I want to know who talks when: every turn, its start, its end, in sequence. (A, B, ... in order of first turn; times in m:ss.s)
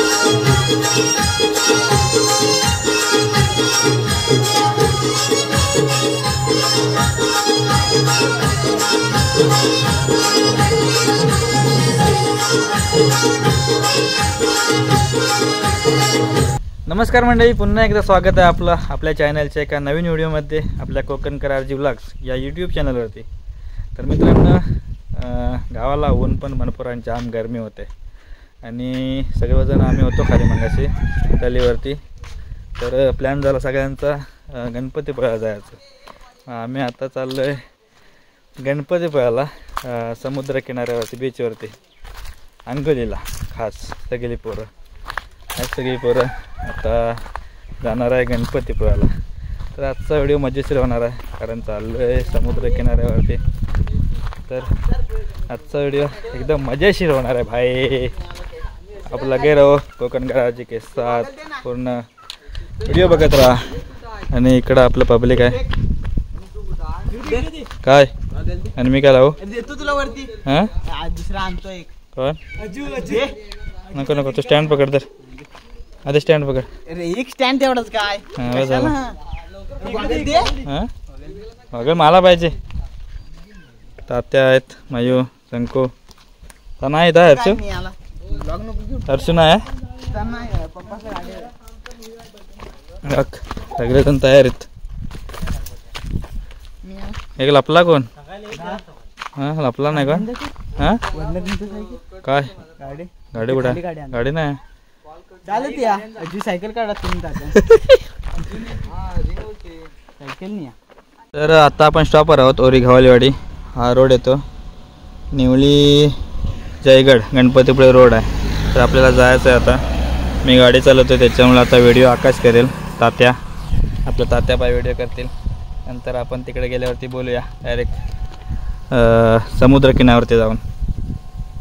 0:16.9-0:23.2 A
0:23.9-0:24.6 A
0:25.1-0:27.9 A
0:28.6-0:32.0 A
0:32.8-0:35.8 A
0:36.5-0:37.6 A
0:38.6-0:41.7 A
0:42.7-0:44.7 A
0:45.6-0:47.2 A
0:47.8-0:49.1 A
0:49.7-0:53.4 A
0:54.5-0:54.7 A
0:55.4-0:58.2 A
0:59.0-1:02.0 A
1:01.0-1:01.6 B
1:02.8-1:03.7 A
1:04.3-1:05.6 A
1:07.1-1:07.5 B
1:07.7-1:08.1 A
1:08.8-1:09.4 A
1:09.4-1:11.9 B
1:10.4-1:10.7 A
1:12.8-1:13.3 B
1:13.9-1:15.0 A
1:16.0-1:16.7 A
1:16.9-1:19.2 B
1:18.4-1:18.9 A
1:19.8-1:20.6 B
1:20.6-1:20.9 A
1:21.7-1:22.5 A
1:24.1-1:25.9 A
1:26.8-1:27.6 A
1:27.3-1:29.2 B
1:29.1-1:29.6 A
1:30.0-1:31.5 B
1:33.0-1:34.7 A
1:36.8-1:37.2 B
1:37.4-1:38.1 A
1:38.5-1:38.8 B
1:39.4-1:41.0 A
1:39.9-1:40.6 B
1:41.1-1:42.0 B
1:42.2-1:42.6 A
1:42.8-1:44.2 B
1:43.3-1:44.6 A
1:45.4-1:48.0 B
1:50.2-1:50.7 B
1:51.3-1:54.4 A
1:55.3-1:56.2 A
1:56.8-1:59.8 A
2:00.4-2:03.4 A
2:04.0-2:05.3 A
2:05.8-2:08.0 A
2:08.9-2:10.6 A